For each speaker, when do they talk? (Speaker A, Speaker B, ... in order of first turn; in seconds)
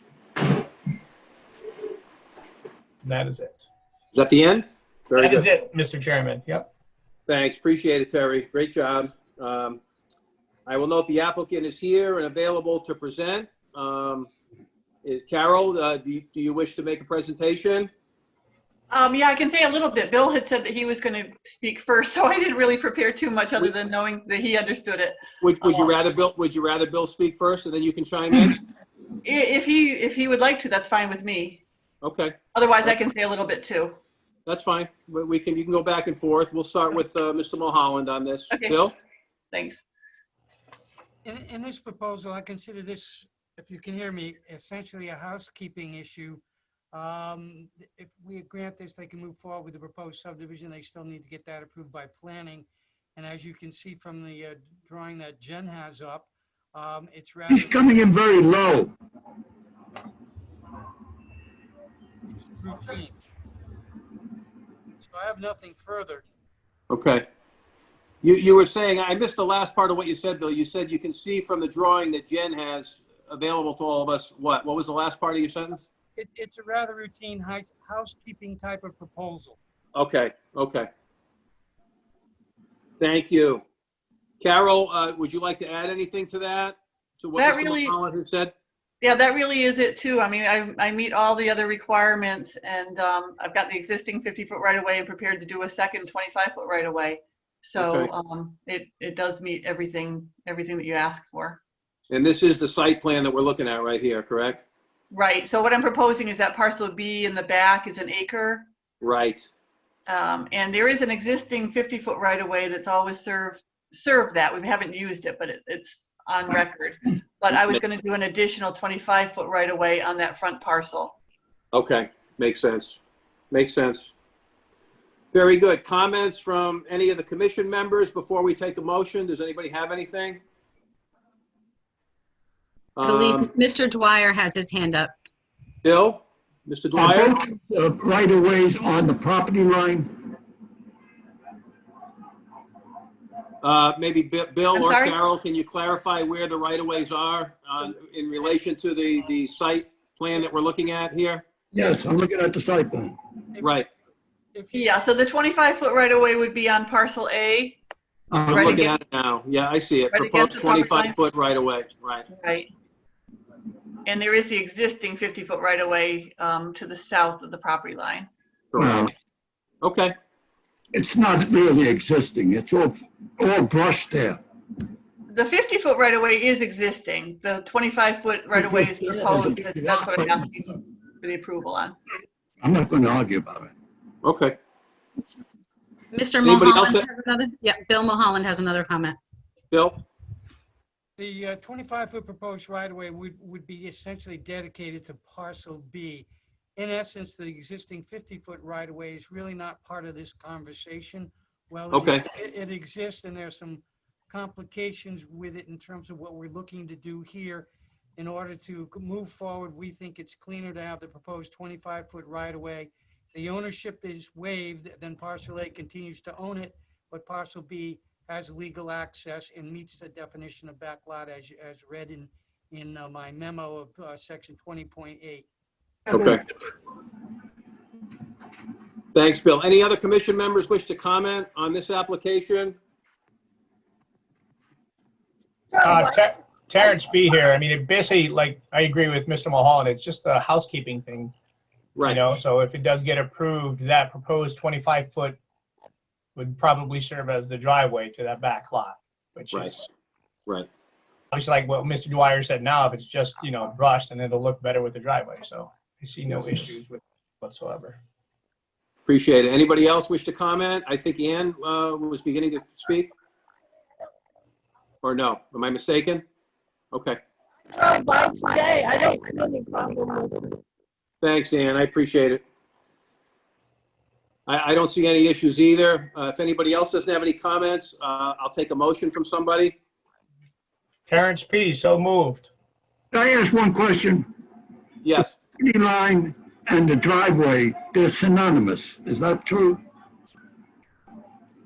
Speaker A: 3.0-3.6, 5.2-6.7, 235.8-241.3, 242.0-245.4, 246.3-249.8, 251.3-258.0, 281.1-282.5
Speaker B: 4.1-5.5, 7.3-9.8, 10.7-14.3, 15.0-17.9, 25.4-28.6, 32.0-32.3, 34.5-38.9, 66.9-67.2, 68.2-75.9, 79.9-80.9, 83.0-83.6, 84.4-88.5, 97.8-98.1, 102.1-104.6, 109.0-109.5, 121.7-123.0, 123.5-124.1, 125.3-130.4, 132.9-133.5, 135.8-137.4, 143.6-151.4, 153.6-153.9, 158.5-162.2, 168.7-169.1, 169.8-170.1, 184.2-184.6, 186.4-187.1, 189.7-190.0, 201.9-202.3, 226.1-226.4, 229.1-232.8, 241.9-242.2, 249.5-249.8, 259.1-263.1, 265.0-266.2, 266.9-267.2, 271.2-272.4, 274.5-279.8, 285.0-285.4
Speaker C: 18.9-25.9, 29.2-31.6, 32.5-34.0, 38.5-38.8, 39.5-39.8, 87.4-87.9, 89.0-101.6, 105.1-108.7, 110.1-121.2, 144.7-145.2, 154.7-157.8, 158.5-158.9, 160.1-161.1, 162.3-162.7, 164.0-168.3, 175.3-182.0
Speaker D: 41.2-46.4, 46.9-57.9, 62.3-63.1, 65.0-66.2, 76.2-79.6, 154.5-155.0, 191.2-225.5
Speaker E: 57.5-58.9, 136.9-140.1, 151.7-153.1, 158.3-158.8, 168.8-169.1, 170.9-174.4, 178.5-180.5, 182.6-183.7, 283.1-284.3, 285.6-289.8
Speaker F: 133.0-135.1, 186.1-189.2
Speaker G: 235.7-236.0, 267.7-270.6